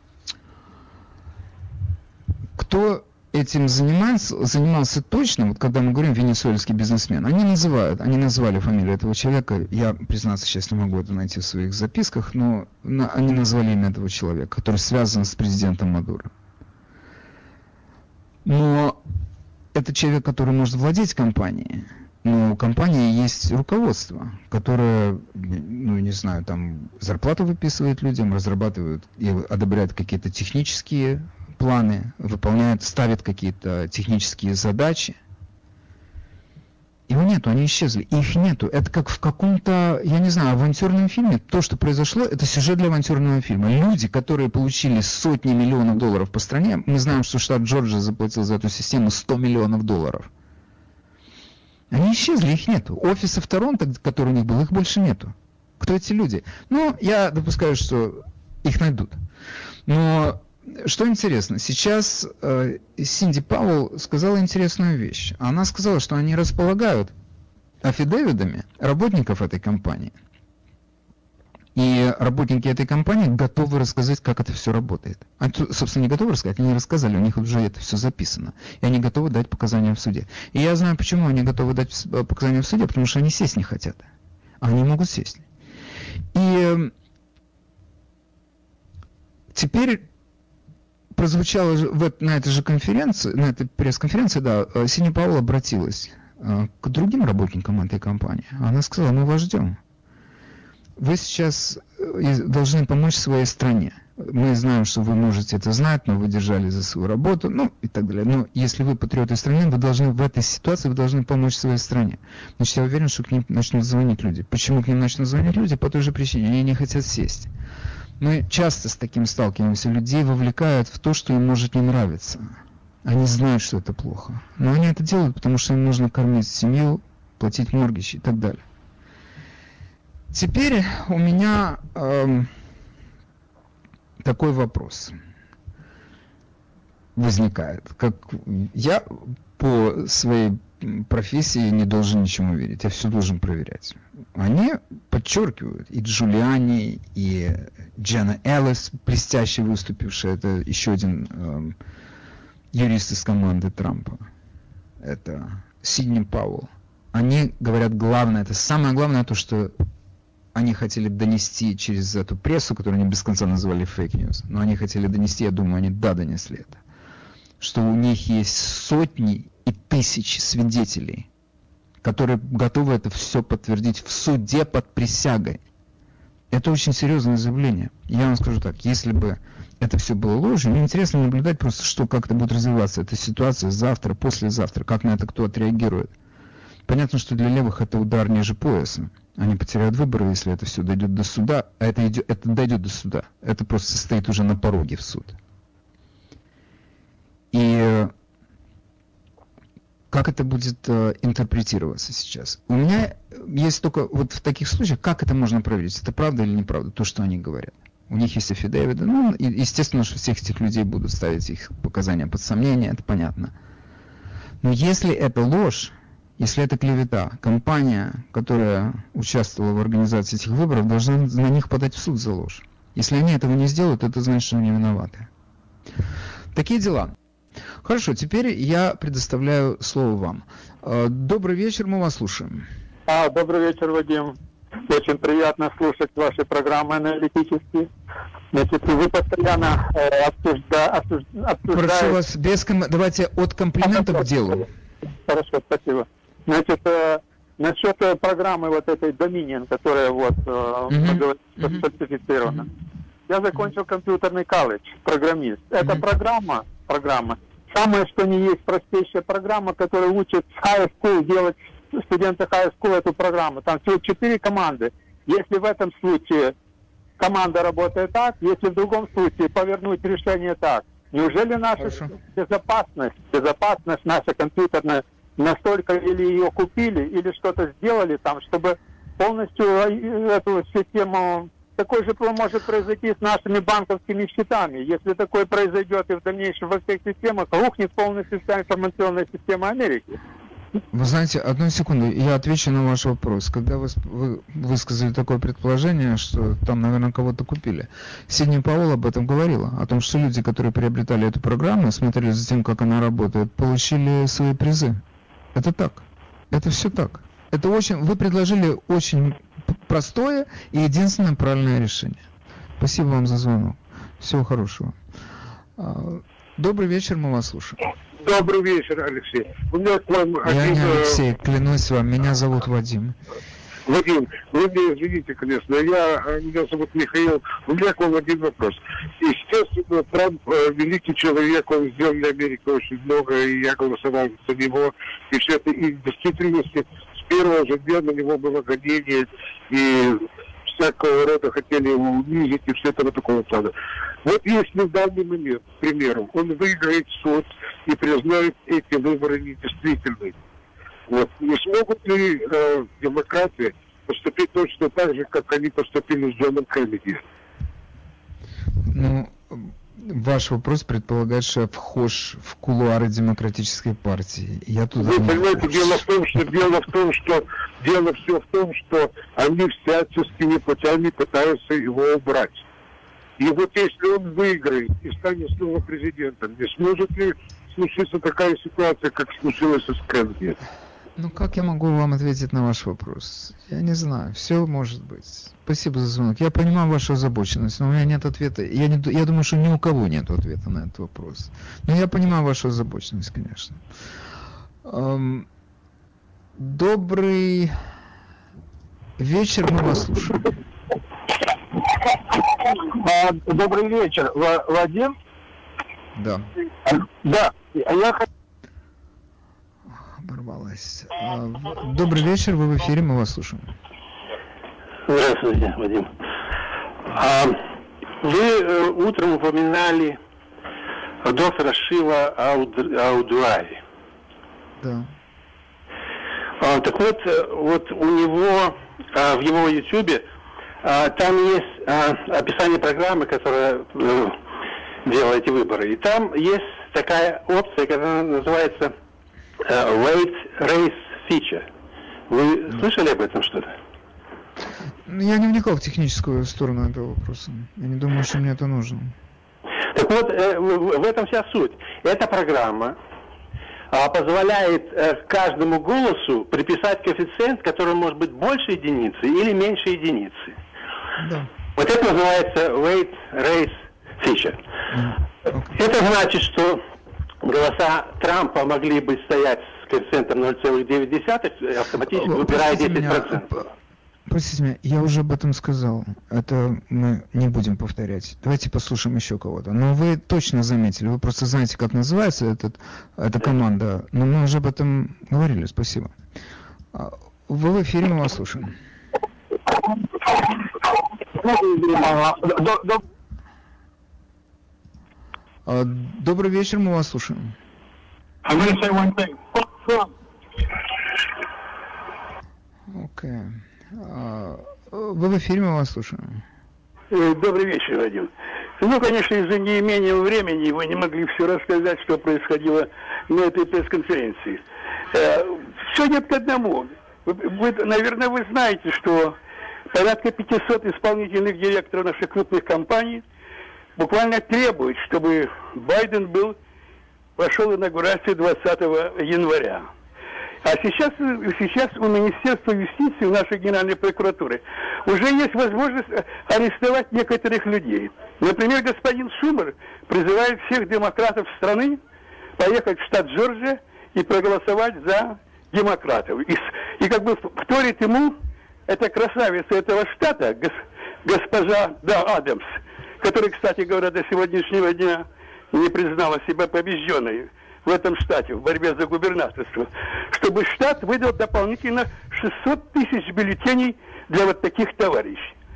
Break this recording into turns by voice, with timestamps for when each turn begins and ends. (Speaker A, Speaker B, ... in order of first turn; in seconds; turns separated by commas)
Speaker A: 2.6-16.3, Speaker A: 18.4-19.0, Speaker A: 19.7-35.2, Speaker A: 37.1-50.3, Speaker A: 51.9-59.2, Speaker A: 59.9-67.1, Speaker A: 67.8-70.1, Speaker A: 71.8-84.0, Speaker A: 84.6-85.4, Speaker A: 86.3-86.9, Speaker A: 89.5-90.0, Speaker A: 91.2-99.8, Speaker A: 101.0-117.5, Speaker A: 118.2-128.6, Speaker A: 130.3-132.5, Speaker A: 134.2-135.1, Speaker A: 137.2-151.8, Speaker A: 152.7-154.2, Speaker A: 155.0-159.7, Speaker A: 160.6-166.8, Speaker A: 167.6-171.3, Speaker A: 172.0-175.6, Speaker A: 176.5-186.1, Speaker A: 186.9-195.4, Speaker A: 197.5-198.1, Speaker A: 200.1-213.5, Speaker A: 214.6-225.3, Speaker A: 226.5-227.1, Speaker A: 227.8-232.7, Speaker B: 233.1-234.4, Speaker B: 234.9-237.9, Speaker B: 238.5-242.2, Speaker A: 241.7-244.7, Speaker B: 245.3-252.7, Speaker A: 250.9-251.8, Speaker B: 253.3-266.5, Speaker B: 267.2-290.1, Speaker A: 271.8-272.1, Speaker A: 290.9-305.0, Speaker A: 305.6-312.2, Speaker A: 312.8-314.9, Speaker A: 315.8-317.8, Speaker C: 318.2-321.2, Speaker A: 320.4-323.2, Speaker C: 323.9-343.7, Speaker C: 344.2-350.4, Speaker C: 351.1-357.2, Speaker A: 358.9-366.0, Speaker C: 365.0-372.6, Speaker C: 373.4-380.6, Speaker A: 381.2-393.8, Speaker A: 394.9-395.5, Speaker A: 396.6-397.8, Speaker A: 399.2-400.5, Speaker C: 403.0-405.1, Speaker A: 406.2-406.5, Speaker C: 407.2-408.2, Speaker A: 410.2-413.7, Speaker D: 415.1-416.1, Speaker D: 417.1-417.6, Speaker D: 418.2-420.2, Speaker D: 421.2-423.8, Speaker A: 424.8-425.1, Speaker D: 426.6-430.2, Speaker D: 430.8-434.4, Speaker D: 435.1-438.9, Speaker D: 439.6-441.7, Speaker D: 442.3-443.8, Speaker A: 445.1-449.1, Speaker D: 449.9-453.0, Speaker D: 453.9-460.6, Speaker A: 461.2-461.5, Speaker D: 461.8-464.6, Speaker A: 464.9-465.7, Speaker D: 465.7-466.8, Speaker D: 467.4-473.5, Speaker A: 472.1-473.6, Speaker A: 474.3-486.1, Speaker A: 486.9-488.7, Speaker A: 495.7-497.6, Speaker A: 502.9-506.4, Speaker E: 507.1-519.4, Speaker E: 519.9-523.2, Speaker E: 524.0-526.6, Speaker E: 527.4-529.9, Speaker E: 530.6-542.0, Speaker E: 542.6-548.4, Speaker E: 548.9-565.5